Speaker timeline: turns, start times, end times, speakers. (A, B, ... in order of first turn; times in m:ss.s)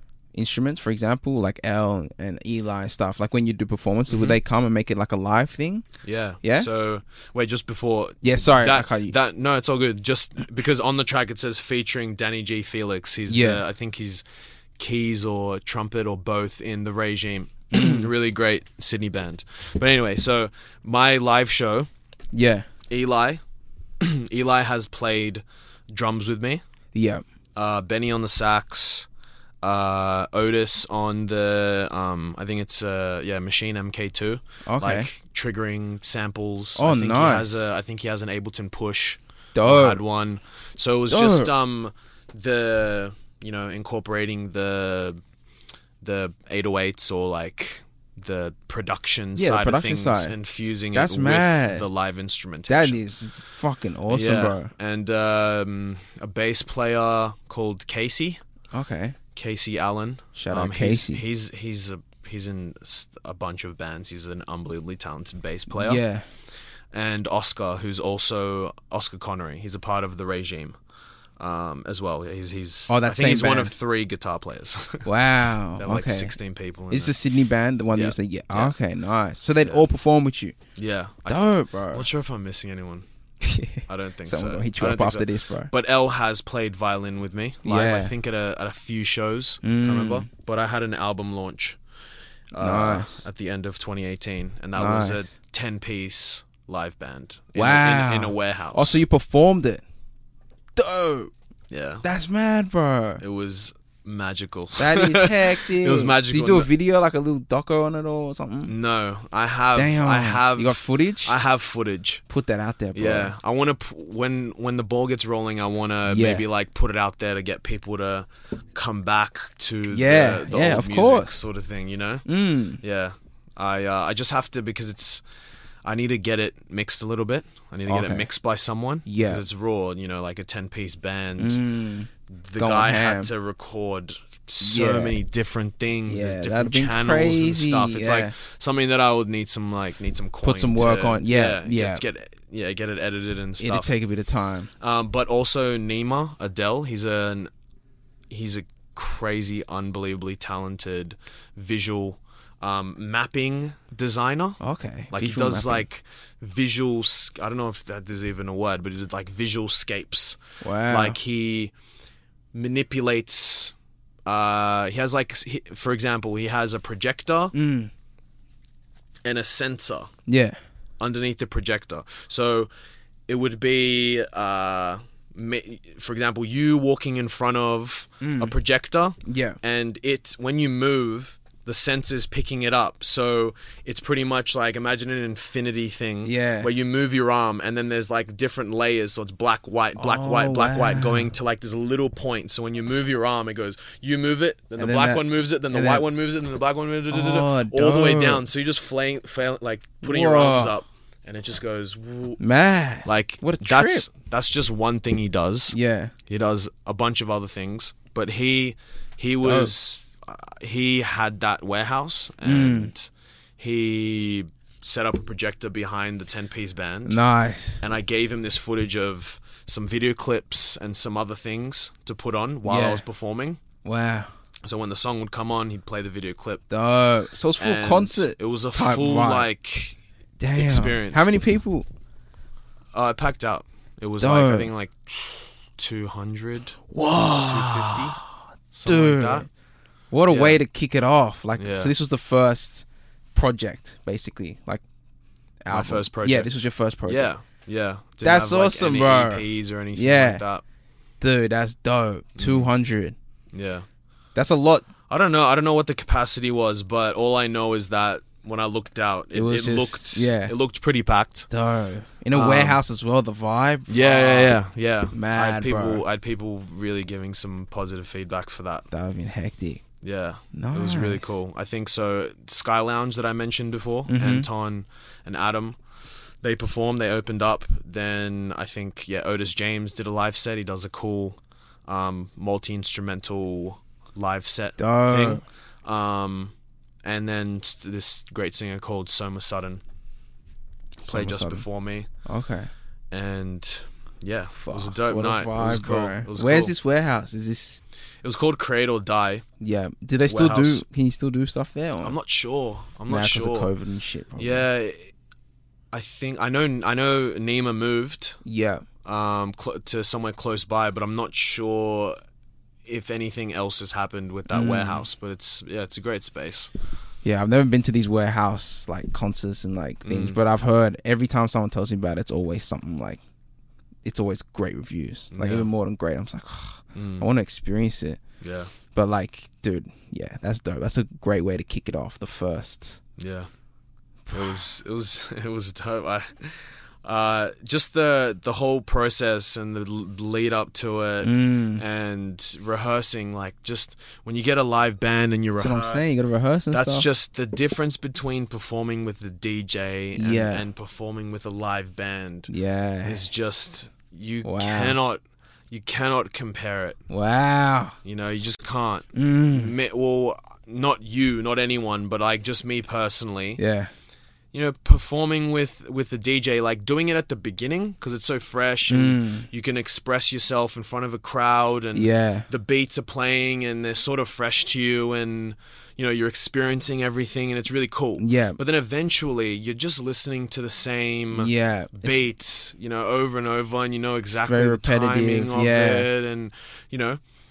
0:00.3-0:05.9 A
0:04.1-0:04.4 B
0:06.0-0:14.2 B
0:06.4-0:06.7 A
0:08.2-0:09.2 A
0:13.3-0:13.6 A
0:14.8-0:21.9 B
0:17.7-0:18.1 A
0:22.3-0:22.7 A
0:22.9-0:23.4 B
0:24.0-0:26.6 B
0:26.9-0:27.2 A
0:27.6-0:29.1 B
0:29.6-0:45.2 B
0:34.7-0:35.1 A
0:36.8-0:37.7 A
0:39.6-0:40.0 A
0:41.1-0:41.5 A
0:46.0-0:53.0 B
0:49.4-0:50.4 A
0:50.9-0:51.9 A
0:52.7-0:54.7 A
0:54.1-0:58.4 B
0:58.7-0:59.2 A
0:59.4-1:06.0 B
1:00.4-1:01.2 A
1:05.7-1:06.2 A
1:06.9-1:10.8 B
1:11.4-1:15.1 B
1:12.9-1:13.7 A
1:15.0-1:16.4 A
1:15.8-1:17.2 B
1:16.9-1:20.6 A
1:18.0-1:18.7 B
1:20.8-1:23.0 B
1:21.3-1:22.1 A
1:23.4-1:25.7 A
1:23.9-1:31.8 B
1:27.6-1:28.1 A
1:29.6-1:30.3 A
1:32.5-1:39.0 B
1:32.6-1:33.3 A
1:34.8-1:35.3 A
1:37.6-1:39.8 A
1:40.8-1:41.3 A
1:41.7-1:42.1 B
1:42.0-1:43.2 A
1:43.2-1:46.7 B
1:44.8-1:48.7 A
1:48.7-1:52.2 B
1:49.8-1:51.3 A
1:52.3-1:53.3 A
1:53.0-2:02.3 B
1:56.1-1:56.4 A
1:59.9-2:01.5 A
2:02.3-2:02.8 A
2:02.8-2:05.2 B
2:05.8-2:11.6 B
2:07.9-2:08.3 A
2:09.1-2:09.4 A
2:11.4-2:13.3 A
2:12.3-2:23.9 B
2:14.6-2:15.2 A
2:16.1-2:18.3 A
2:20.4-2:22.0 A
2:23.6-2:24.7 A
2:24.8-2:27.5 B
2:28.3-2:34.6 B
2:34.6-2:35.9 A
2:35.1-2:41.7 B
2:40.6-2:41.2 A
2:42.5-2:43.8 B
2:44.3-2:47.6 B
2:47.5-2:47.9 A
2:49.2-2:50.1 B
2:50.3-2:50.6 A
2:51.0-2:52.7 B
2:53.3-3:22.4 B
2:58.2-2:58.5 A
2:59.2-2:59.6 A
3:06.2-3:06.7 A
3:10.0-3:11.3 A
3:14.8-3:16.0 A
3:17.1-3:18.4 A
3:20.0-3:20.7 A
3:22.4-3:24.1 A
3:23.0-3:25.8 B
3:25.7-3:26.1 A
3:26.3-3:37.2 B
3:29.4-3:29.7 A
3:32.4-3:32.9 A
3:37.1-3:37.8 A
3:37.8-3:43.6 B
3:42.6-3:43.0 A
3:43.8-3:44.3 A
3:44.6-3:46.6 B
3:46.7-3:49.5 A
3:47.6-3:50.0 B
3:50.4-3:51.9 A
3:50.6-3:51.4 B
3:52.9-3:56.8 B
3:54.2-3:54.7 A
3:56.9-3:58.3 A
3:57.4-3:58.2 B
3:58.7-3:59.5 B
3:58.8-3:59.5 A
4:00.1-4:04.8 A
4:00.3-4:00.6 B
4:01.6-4:01.9 B
4:05.6-4:07.3 A
4:05.7-4:10.6 B
4:08.2-4:10.4 A
4:11.2-4:13.2 A
4:12.4-4:12.7 B
4:13.5-4:13.9 B
4:14.4-4:14.9 A
4:15.1-4:21.5 B
4:19.3-4:20.5 A
4:21.5-4:24.6 A
4:22.3-4:22.8 B
4:23.9-4:28.9 B
4:25.1-4:26.0 A
4:28.9-4:29.8 A
4:30.0-4:35.8 B
4:30.5-4:31.4 A
4:34.1-4:34.5 A
4:36.4-4:46.5 B
4:44.8-4:45.4 A
4:47.0-4:49.8 B
4:51.0-4:51.7 A
4:51.0-4:52.1 B
4:52.2-4:52.7 A
4:53.1-4:56.7 B
4:54.6-4:57.8 A
4:58.2-4:59.4 B
4:59.6-5:02.2 A
5:00.3-5:00.8 B
5:02.0-5:03.7 B
5:03.1-5:04.7 A
5:04.4-5:05.1 B
5:05.9-5:08.4 B
5:08.4-5:08.8 A
5:09.0-5:12.2 B
5:12.8-5:16.7 B
5:14.5-5:15.1 A
5:17.2-5:23.2 A
5:20.0-5:20.4 B
5:24.0-5:28.2 A
5:25.3-5:25.7 B
5:27.0-5:27.3 B
5:28.4-5:28.7 B
5:28.9-5:33.0 A
5:33.2-5:33.5 B
5:34.3-5:34.6 A
5:34.3-5:46.2 B
5:41.2-5:41.8 A
5:45.6-5:47.1 A
5:46.7-5:52.5 B
5:50.2-5:50.7 A
5:52.5-5:53.2 A
5:53.0-5:57.0 B
5:54.4-5:55.0 A
5:57.1-5:58.0 A
5:58.0-6:03.6 B
5:59.1-5:59.7 A
6:03.6-6:03.9 A
6:04.5-6:27.2 B
6:08.9-6:09.5 A
6:12.0-6:12.5 A
6:18.2-6:18.6 A
6:21.3-6:22.2 A
6:24.4-6:26.1 A